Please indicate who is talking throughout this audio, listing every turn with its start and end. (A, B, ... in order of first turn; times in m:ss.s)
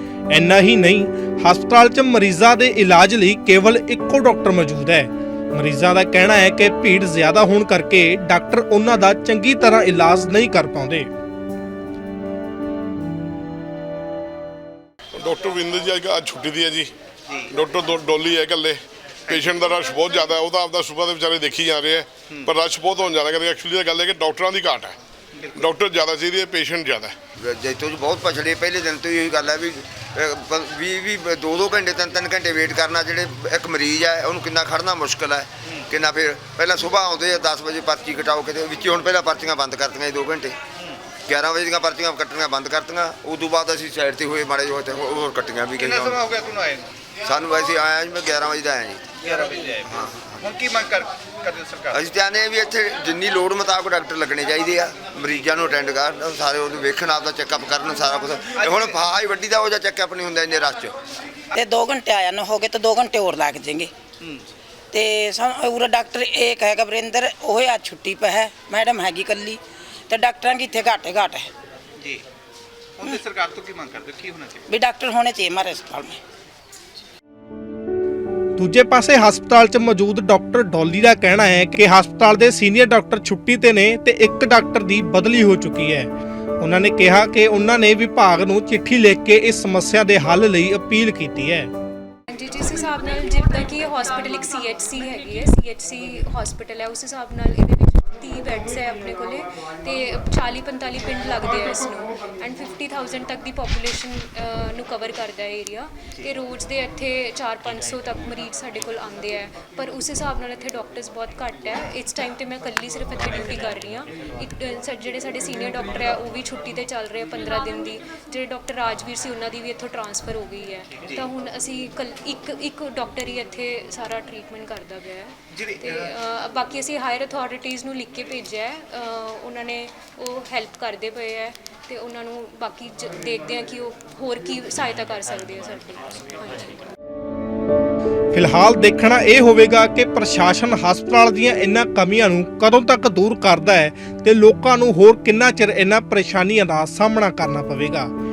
0:00.3-0:11.1 A
0:15.1-0:25.0 B
0:19.3-0:19.6 C
0:25.4-0:25.6 C
0:25.5-0:27.2 B
0:27.4-0:40.6 D
0:41.2-0:46.2 D
0:45.8-0:46.9 C
0:47.2-0:49.1 D
0:49.2-0:52.0 C
0:49.8-0:50.4 D
0:51.9-1:00.9 D
0:58.6-0:59.0 C
1:01.6-1:03.9 E
1:04.9-1:09.6 E
1:10.1-1:11.5 E
1:13.0-1:14.6 C
1:14.7-1:16.2 E
1:18.6-1:31.7 A
1:32.3-2:16.8 F
2:18.3-2:28.1 A